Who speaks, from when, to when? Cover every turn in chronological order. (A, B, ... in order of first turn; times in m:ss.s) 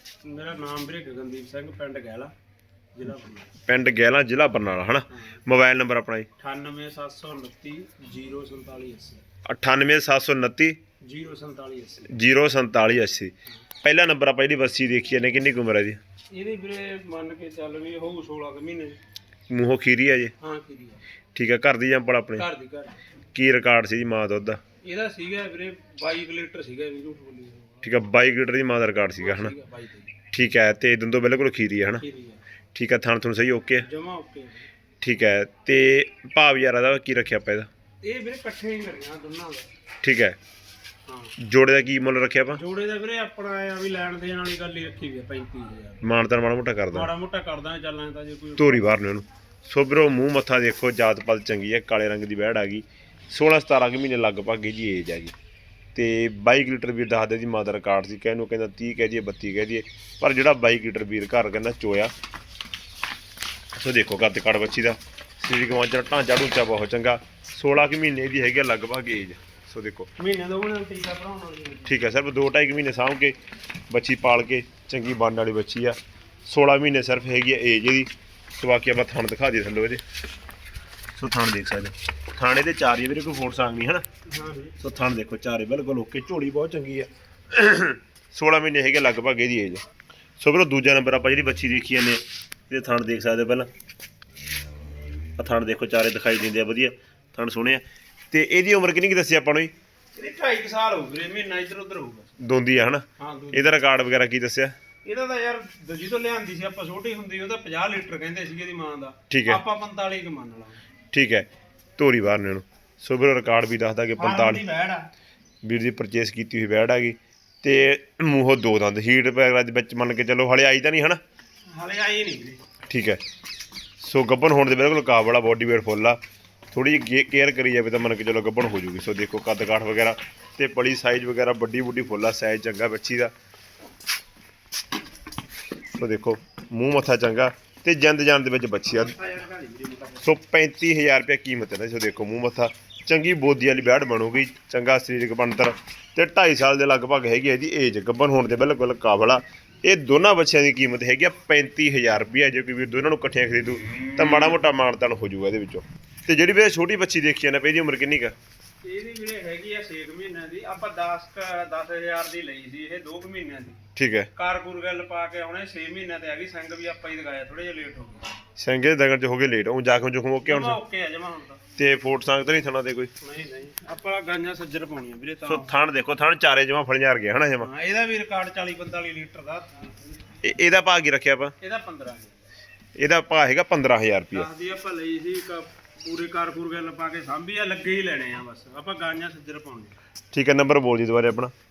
0:00.2-0:02.3 A
0:02.9-0:03.5 A
0:03.7-0:06.3 B
0:05.1-0:05.4 A
0:06.4-0:09.2 A
0:09.4-0:10.8 B
0:11.0-0:12.1 A
0:12.1-0:16.0 B
0:16.3-0:19.0 A
0:19.5-0:20.3 B
0:20.4-0:21.0 A
0:21.4-0:22.5 B
0:22.4-0:23.0 A
0:23.3-0:24.6 B
0:24.8-0:27.9 A
0:27.8-0:29.6 B
0:29.2-0:30.1 A
0:30.3-0:32.0 B
0:32.0-0:32.4 A
0:32.7-0:33.9 B
0:33.8-0:34.7 A
0:35.0-0:37.7 B
0:38.0-0:39.7 A
0:40.0-0:40.4 B
0:41.1-0:41.4 A
0:41.4-0:42.6 B
0:42.5-0:46.0 A
0:46.0-0:47.1 B
0:46.9-0:49.0 A
0:48.6-0:55.4 B
0:56.0-1:02.1 B
1:03.8-1:10.1 B
1:10.2-1:12.0 A
1:11.9-1:13.4 B
1:13.9-1:20.0 B
1:21.2-1:24.0 B
1:24.3-1:24.8 A
1:24.8-1:29.8 B
1:30.4-1:33.7 B
1:35.4-1:39.7 B
1:40.2-1:42.3 A
1:42.4-1:44.8 B
1:43.2-1:43.8 A
1:45.0-1:50.8 A
1:49.3-1:49.6 B
1:51.1-1:54.6 B
1:54.2-1:55.1 A
1:55.6-2:01.2 B
2:01.7-2:02.6 A
2:02.9-2:03.2 B
2:04.0-2:06.2 B
2:06.7-2:13.3 B
2:16.0-2:19.1 B
2:18.9-2:20.3 A
2:20.2-2:38.4 B
2:38.8-2:48.4 A
2:44.0-2:44.3 B
2:48.6-2:50.8 B
2:50.4-2:51.6 A
2:51.8-2:53.1 B
2:53.2-2:55.7 A
2:55.4-2:57.7 B
2:57.6-3:00.4 A
3:00.4-3:01.6 B
3:01.6-3:02.4 A
3:03.0-3:04.5 B
3:04.3-3:10.0 A
3:10.3-3:11.5 B